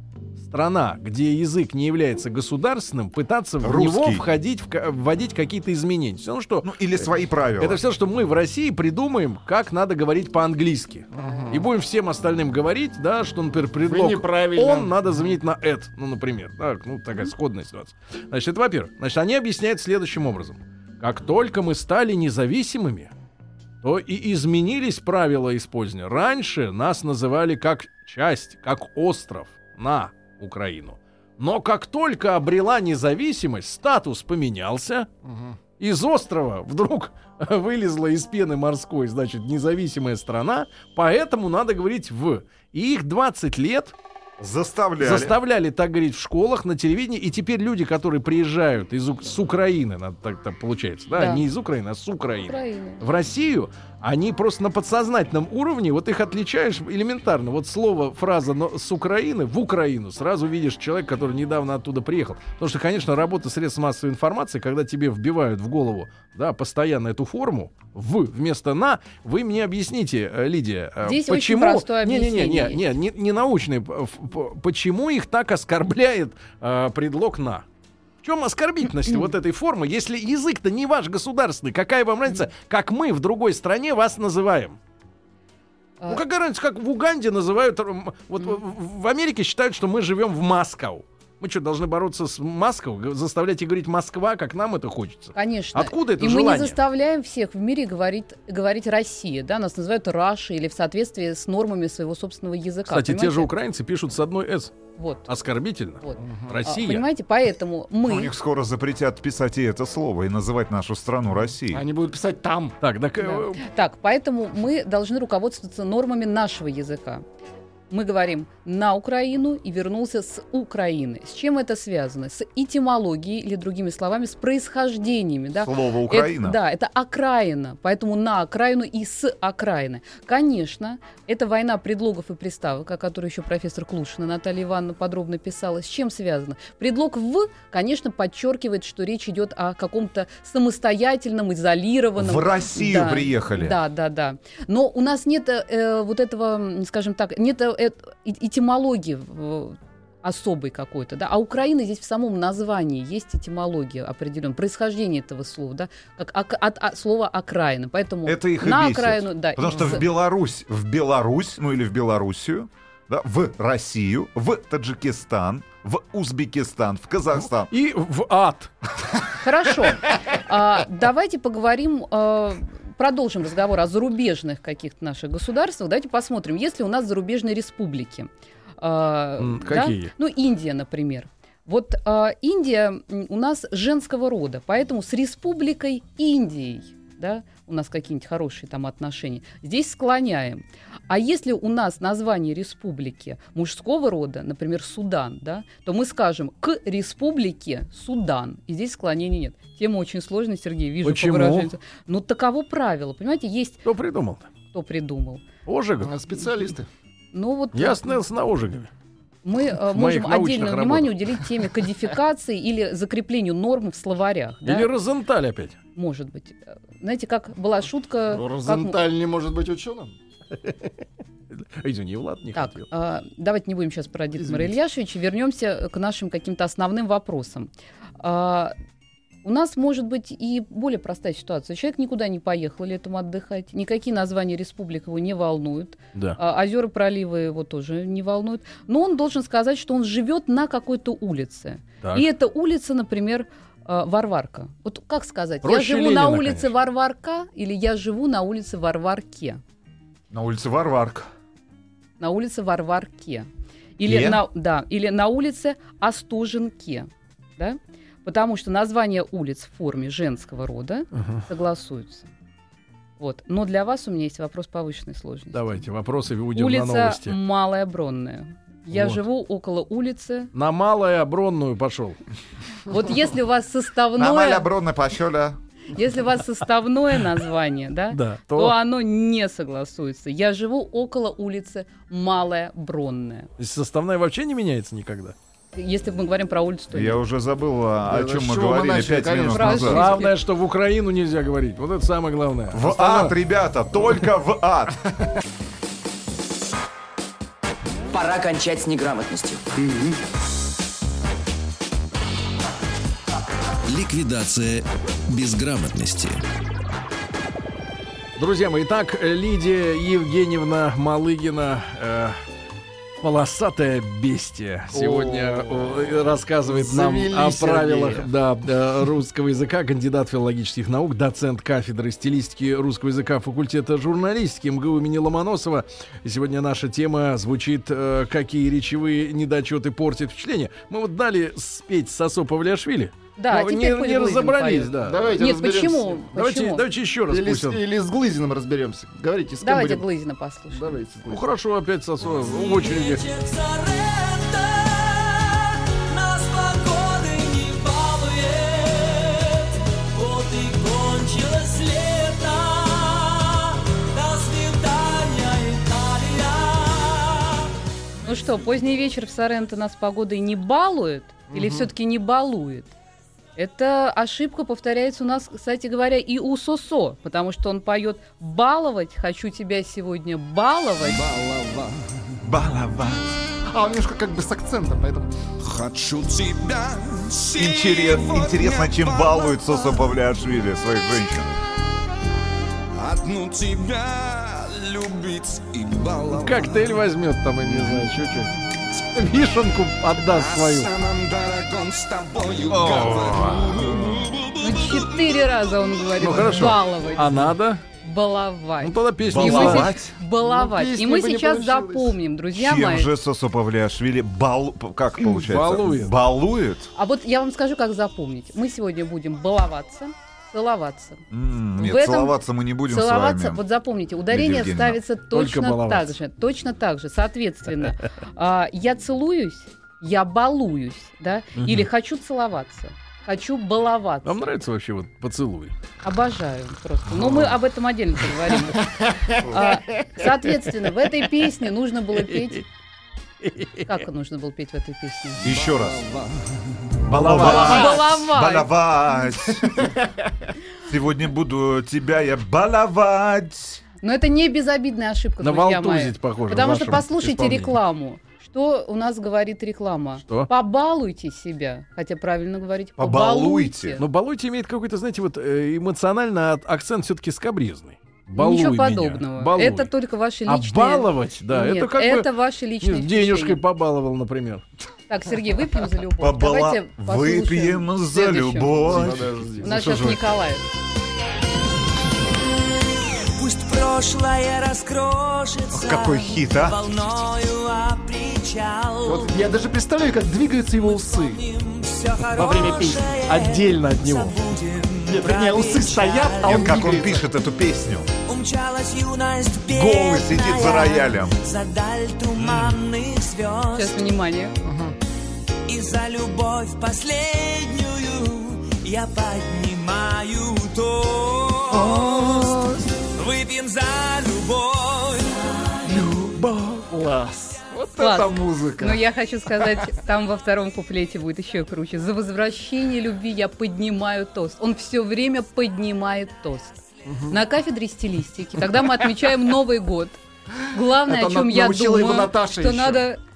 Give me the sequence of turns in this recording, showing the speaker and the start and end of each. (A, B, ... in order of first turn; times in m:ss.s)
0:00.4-0:07.0 A
0:03.6-0:04.2 B
0:06.6-0:07.8 B
0:07.6-0:23.1 A
0:11.1-0:11.6 C
0:13.8-0:14.9 C
0:23.8-0:35.1 A
0:35.2-0:35.6 C
0:35.8-0:43.9 A
0:44.4-0:45.4 B
0:45.0-1:17.6 A
0:51.1-0:51.4 D
0:52.5-0:53.0 D
1:11.0-1:12.8 D
1:18.2-1:24.8 A
1:26.1-1:36.8 A
1:35.3-1:43.5 D
1:42.9-1:44.8 A
1:45.0-1:45.3 D
1:45.3-1:47.0 A
1:46.0-1:48.3 D
1:46.2-1:46.5 C
1:48.1-1:51.8 B
1:51.7-1:52.8 C
1:52.8-1:53.6 A
1:53.2-1:57.2 D
1:57.9-2:40.0 D
2:05.6-2:06.6 B
2:22.2-2:23.8 B
2:38.2-2:47.7 B
2:47.7-2:48.9 A
2:49.4-3:23.8 D
2:59.4-3:00.1 A
3:21.0-3:21.7 A
3:23.8-3:24.5 A
3:24.7-3:25.4 D
3:25.6-3:26.1 A
3:26.0-3:26.9 C
3:27.3-3:28.2 D
3:27.7-3:28.9 A
3:29.4-3:34.9 D
3:29.9-3:31.4 A
3:34.6-3:35.8 A
3:36.0-3:39.0 D
3:38.3-3:40.2 C
3:41.5-3:42.9 A
3:42.5-3:48.7 D
3:44.4-3:44.7 C
3:49.4-4:09.6 D
4:02.0-4:02.3 A
4:05.6-4:06.7 A
4:10.3-4:11.3 B
4:12.2-4:22.3 D
4:14.0-4:14.4 B
4:21.1-4:21.4 A
4:23.2-4:25.8 D
4:25.5-4:27.4 A
4:26.5-4:30.5 D
4:28.9-4:29.2 A
4:30.5-4:32.2 A
4:32.9-4:34.7 D
4:34.1-4:35.6 B
4:35.9-4:43.5 D
4:38.1-4:38.7 A
4:43.6-4:45.4 A
4:45.7-4:47.2 D
4:46.9-4:50.1 B
4:48.0-4:50.0 C
4:49.5-4:50.3 D
4:49.7-4:53.4 A
4:52.7-4:55.0 B
4:58.1-5:00.2 E
5:03.9-5:04.8 F
5:05.3-5:06.4 F
5:08.4-5:12.4 A
5:13.2-5:35.3 A
5:14.9-5:16.1 C
5:16.6-5:18.3 C
5:33.4-5:36.8 D
5:35.0-5:36.2 C
5:36.3-5:37.8 A
5:37.3-5:40.0 C
5:39.6-5:40.9 D
5:40.7-5:41.5 C
5:41.3-5:43.2 A
5:42.3-5:57.7 F
5:58.2-6:02.9 D
6:01.5-6:01.9 C
6:03.6-6:11.2 D
6:11.0-6:12.2 G
6:12.4-6:13.2 B
6:13.7-6:15.3 C
6:15.6-6:20.1 G
6:17.6-6:21.5 B
6:23.0-6:27.0 G
6:26.3-6:28.5 A
6:29.1-6:30.9 A
6:30.2-6:35.1 G
6:32.7-6:34.4 B
6:34.5-6:37.5 D
6:36.2-6:37.8 A
6:38.0-6:43.1 D
6:38.8-6:40.1 A
6:39.2-6:40.0 B
6:40.4-6:42.1 C
6:42.5-6:46.9 B
6:45.4-6:46.2 A
6:47.0-6:51.2 D
6:51.3-6:53.6 B
6:51.7-6:52.4 D
6:52.9-7:04.5 D
6:54.3-6:55.0 B
6:55.3-6:56.1 A
7:01.6-7:01.9 A
7:04.2-7:05.7 A
7:06.0-7:08.8 D
7:07.2-7:07.4 A
7:08.8-7:10.3 C
7:09.5-7:12.6 D
7:13.4-7:13.8 A
7:13.8-7:15.4 D
7:15.4-7:17.0 G
7:15.4-7:16.0 B
7:17.1-7:19.9 B
7:17.1-7:17.7 A
7:17.3-7:18.0 C
7:17.3-7:18.7 D
7:20.8-7:23.8 B
7:24.0-7:34.0 D
7:25.4-7:27.8 A
7:33.0-7:34.0 B
7:34.0-7:39.9 A
7:38.3-7:43.6 D
7:40.5-7:42.3 A
7:42.8-7:44.6 A
7:45.1-7:48.9 D
7:46.2-7:49.3 B
7:48.8-7:49.8 C
7:49.6-7:50.2 A
7:49.6-7:50.6 D
7:53.4-7:59.3 F
7:55.7-7:57.2 B
7:59.0-8:01.4 C
8:00.8-8:06.7 F
8:02.4-8:03.2 C
8:03.1-8:04.4 A
8:05.1-8:07.2 C
8:06.4-8:08.1 B
8:08.3-8:14.0 F
8:09.7-8:11.4 B
8:12.4-8:12.7 B
8:13.7-8:14.6 D
8:14.6-8:14.9 C
8:15.7-8:25.3 F
8:21.7-8:22.9 C
8:25.8-8:29.0 C
8:28.0-8:40.2 D
8:37.0-8:37.4 C
8:40.7-8:43.2 D
8:41.0-8:43.0 C